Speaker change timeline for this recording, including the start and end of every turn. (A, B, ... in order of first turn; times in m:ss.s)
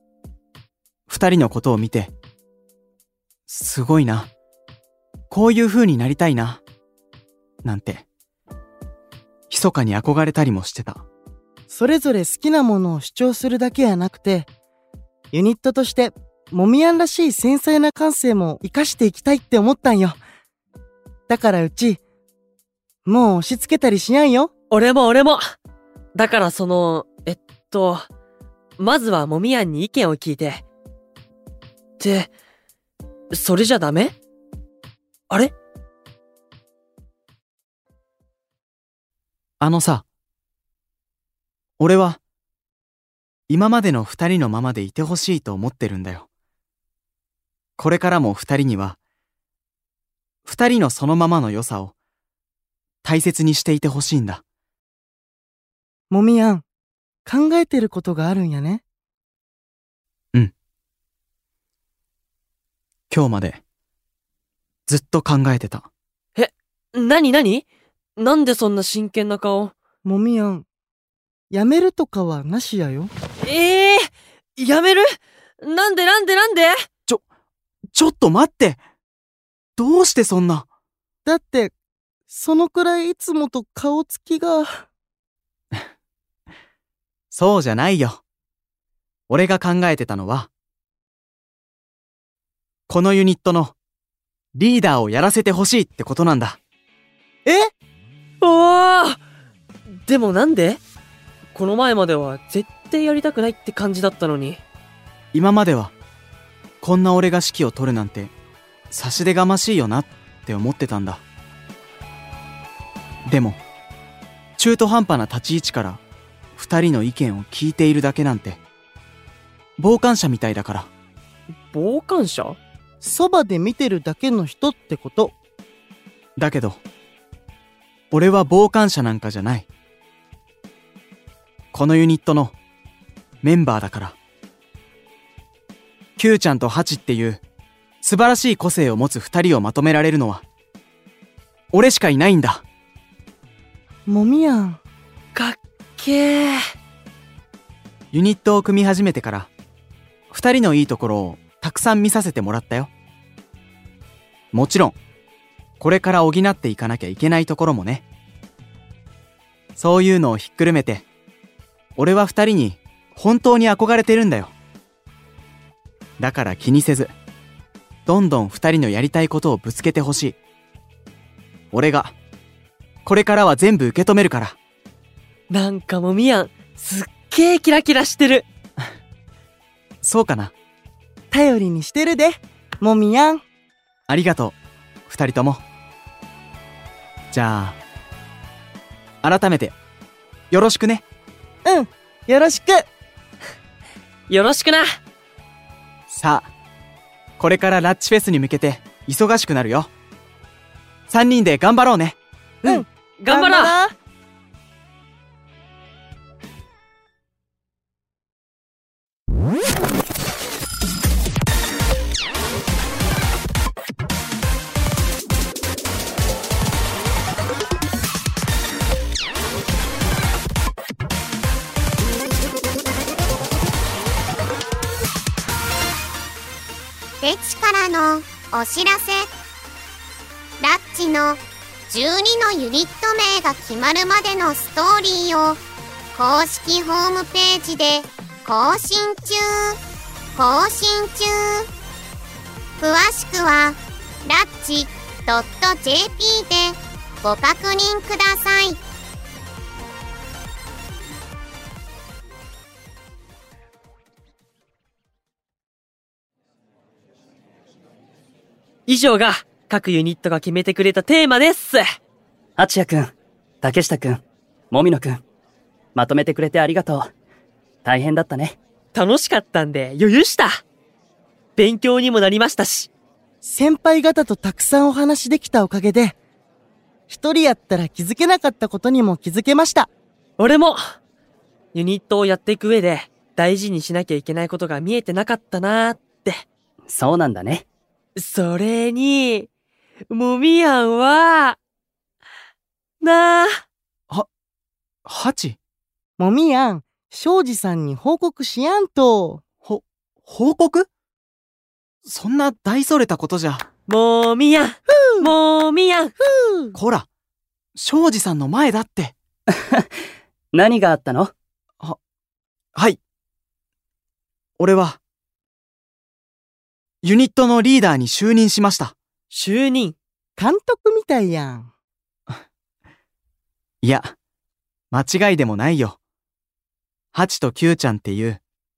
0:01.1-0:02.1 A
0:03.5-0:04.3 A
0:05.3-0:06.6 A
0:07.6-0:08.0 A
0:09.5-0:11.0 A
0:11.7-0:14.5 B
0:15.3-0:20.2 B
0:21.3-0:22.0 B
0:23.0-0:24.5 B
0:24.7-0:25.4 C
0:26.1-0:28.0 C
0:28.8-0:30.6 C
0:32.0-0:32.3 C
0:33.3-0:34.2 C
0:39.6-0:40.0 A
0:41.8-0:42.2 A
0:43.5-0:46.3 A
0:47.8-0:49.0 A
0:50.4-0:51.9 A
0:53.0-0:54.4 A
0:56.1-0:56.6 B
0:57.2-0:58.8 B
1:03.1-1:03.6 A
1:04.9-1:05.9 A
1:06.4-1:07.6 C
1:08.2-1:09.7 C
1:10.0-1:10.6 B
1:11.5-1:13.1 B
1:13.4-1:16.8 C
1:17.9-1:18.8 A
1:19.8-1:20.7 A
1:21.2-1:21.7 B
1:22.3-1:24.8 B
1:27.3-1:28.2 A
1:29.3-1:30.5 A
1:32.9-1:33.7 A
1:34.5-1:36.6 A
1:38.4-1:39.2 C
1:40.1-1:40.8 C
1:41.5-1:44.6 C
1:45.3-1:45.9 A
1:46.8-1:48.3 A
1:48.9-1:51.2 A
1:53.3-1:53.6 A
1:54.6-1:56.0 A
1:56.6-1:58.6 A
1:59.8-2:00.9 A
2:01.7-2:02.6 C
2:03.0-2:05.3 B
2:06.4-2:06.8 A
2:08.1-2:09.7 A
2:11.7-2:12.6 A
2:13.4-2:14.2 A
2:16.2-2:17.4 A
2:18.0-2:20.4 A
2:21.7-2:22.6 A
2:24.1-2:24.8 B
2:25.3-2:26.6 C
2:28.1-2:29.5 A
2:30.3-2:32.9 A
2:34.5-2:35.0 A
2:35.8-2:38.0 A
2:39.8-2:41.1 A
2:42.0-2:44.5 A
2:46.2-2:47.1 A
2:48.0-2:50.4 A
2:51.7-2:52.2 A
2:53.0-2:54.6 A
2:55.5-2:58.5 C
3:00.0-3:00.5 A
3:01.3-3:03.4 B
3:04.1-3:04.6 A
3:05.1-3:05.6 A
3:07.3-3:07.8 A
3:09.2-3:09.8 A
3:10.5-3:11.0 A
3:11.6-3:12.8 B
3:14.3-3:15.0 C
3:16.1-3:16.5 A
3:17.4-3:19.9 A
3:21.1-3:22.2 A
3:22.6-3:23.7 C
3:22.6-3:23.9 B
3:47.2-3:49.3 D
3:50.6-3:55.6 D
3:56.1-3:59.8 D
4:00.4-4:01.7 D
4:02.8-4:08.8 D
4:18.9-4:21.8 C
4:22.6-4:25.2 E
4:25.9-4:27.1 E
4:27.8-4:28.6 E
4:28.9-4:30.6 C
4:31.6-4:32.9 C
4:33.4-4:36.2 B
4:37.1-4:39.9 B
4:40.4-4:40.8 C
4:41.7-4:46.4 C
4:46.9-4:47.6 E
4:48.2-4:49.5 C
4:50.1-4:51.6 C
4:53.0-4:53.6 C
4:55.0-4:55.6 A
4:56.2-4:59.4 B
4:59.6-5:00.9 A
5:02.0-5:03.6 A
5:03.9-5:06.1 C
5:04.9-5:05.3 B
5:06.2-5:06.7 B
5:06.7-5:07.1 A
5:07.8-5:09.2 A
5:10.5-5:11.3 E
5:14.6-5:15.0 A
5:17.0-5:19.0 A
5:19.3-5:20.0 C
5:20.4-5:21.7 B
5:23.8-5:24.1 A
5:24.9-5:26.0 A
5:27.1-5:28.4 A